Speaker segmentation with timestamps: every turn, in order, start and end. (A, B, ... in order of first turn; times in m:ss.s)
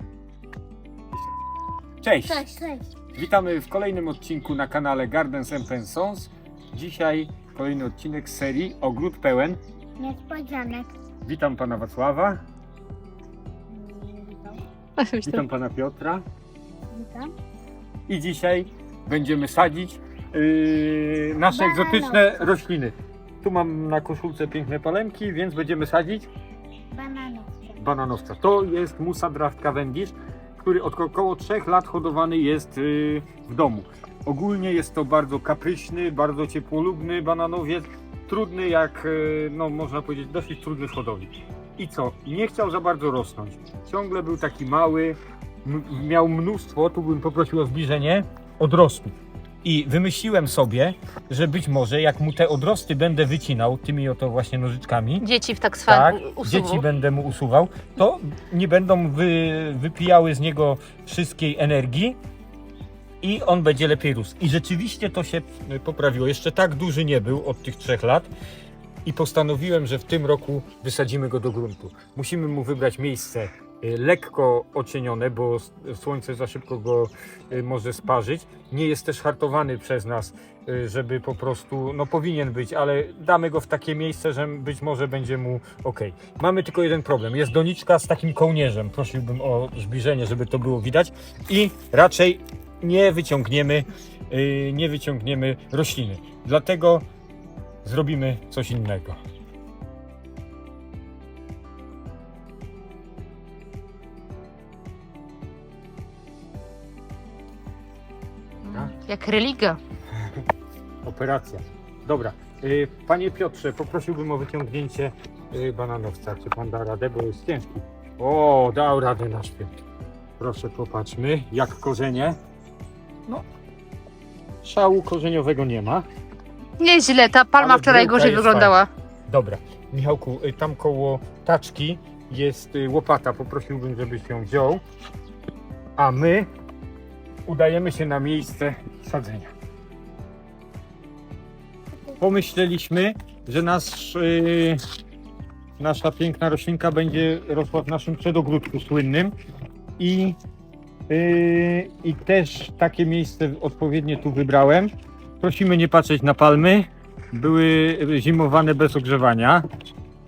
0:02.0-0:02.5 A
0:02.3-0:02.8 B
0:03.2-0:09.6 A
0:10.0-0:10.9 B
0:11.2-0:12.4 A
0:13.7-0:14.6 B
0:15.0-0:15.4 C
0:15.2-0:16.3 A
0:16.9-0:17.3 B
0:18.1-0:26.3 A
0:21.5-0:22.4 B
0:26.9-0:27.8 B
0:27.8-0:55.3 A
0:55.2-0:56.9 C
0:55.9-1:02.2 A
1:03.2-1:08.3 A
1:09.0-1:37.0 A
1:37.8-1:39.2 A
1:48.6-1:48.9 A
1:48.7-1:49.8 C
1:50.1-1:50.4 A
1:51.0-1:59.8 A
2:00.4-2:02.4 A
2:04.6-2:06.1 A
2:06.8-2:08.9 C
2:07.6-2:14.8 A
2:16.0-2:16.5 A
2:17.5-2:19.5 A
2:22.2-2:24.8 A
2:25.8-2:29.3 A
2:30.0-2:30.4 A
2:31.1-2:39.6 A